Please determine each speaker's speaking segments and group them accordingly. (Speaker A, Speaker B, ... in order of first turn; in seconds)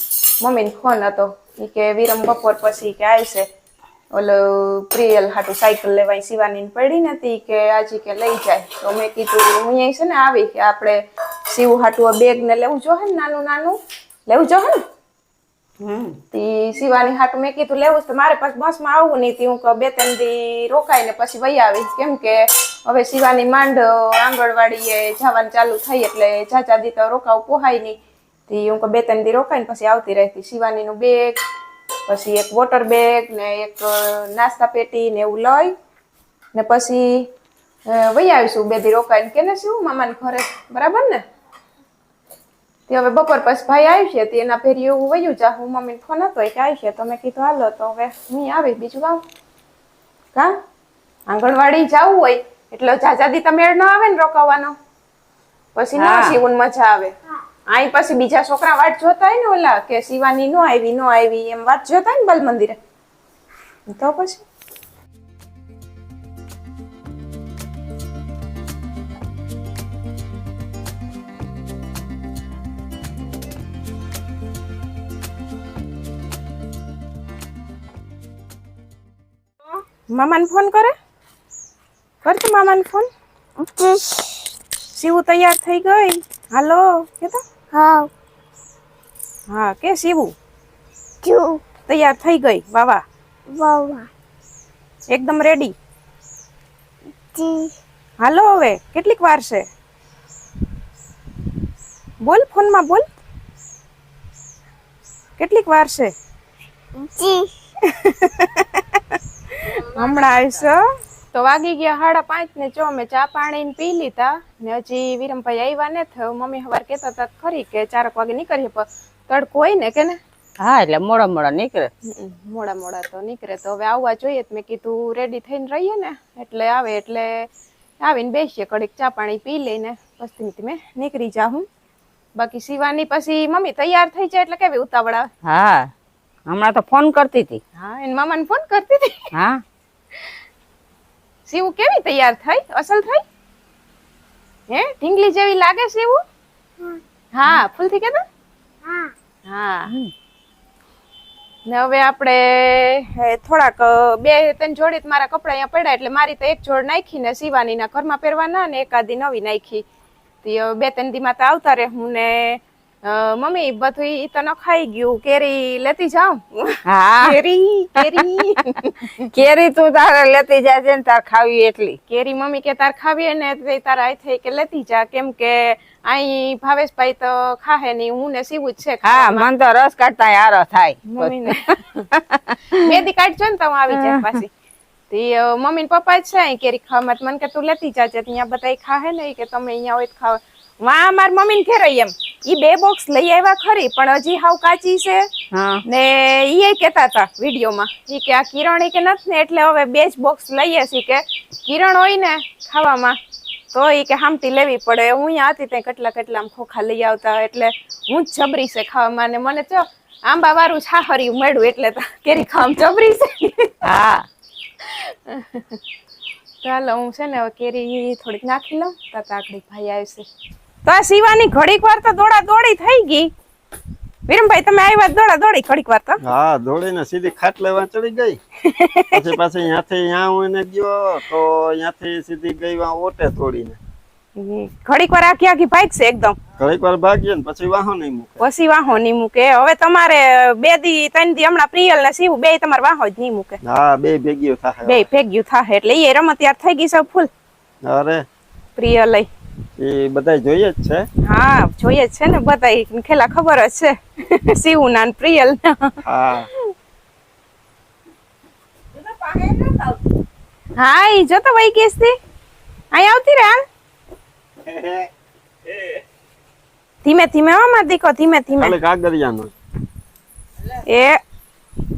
Speaker A: 0.4-3.5, 4.1-14.8, 16.3-28.0, 28.5-31.4, 32.1-35.7, 36.5-37.3, 37.9-41.2, 42.9-49.2, 51.3-54.7, 55.7-57.1, 57.7-62.8, 63.9-64.4, 80.1-80.9, 82.2-83.1, 84.9-87.4, 89.5-90.3, 91.9-93.0, 95.1-95.7, 98.2-99.7, 102.2-103.1, 105.4-106.1, 107.8-120.2, 122.0-127.5, 128.0-131.7, 132.3-135.3, 137.8-139.3, 141.5-143.2, 144.7-146.2, 147.3-148.2, 149.4-149.9, 151.7-159.8, 160.4-169.3, 172.1-179.4, 181.1-182.0, 182.8-184.5, 185.1-195.3, 195.8-203.2, 203.7-213.8, 214.8-215.8, 216.6-220.2, 220.8-223.3, 224.3-226.2, 228.6-229.2, 234.3-236.4, 238.4-243.6, 244.8-247.3, 248.8-249.3, 251.2-256.7, 260.7-262.1, 262.9-263.6, 267.0-268.8, 270.7-271.2
Speaker B: 15.8-16.2, 56.0-56.4, 109.7-110.6, 120.6-121.9, 135.4-135.9, 136.5-137.6, 139.3-139.6, 149.9-150.1, 166.8-167.4, 168.0-168.4, 169.2-172.0, 179.0-182.8, 183.9-184.2, 195.5-195.8, 213.8-214.3, 258.9-260.0
Speaker C: 83.6-84.5, 87.7-88.1, 91.2-91.6, 93.5-94.1, 97.3-97.7, 106.9-107.5
Speaker D: 226.2-228.4, 229.1-233.8, 236.6-238.5, 243.6-245.1, 247.8-248.2, 249.8-251.1, 256.0-256.5, 268.6-269.5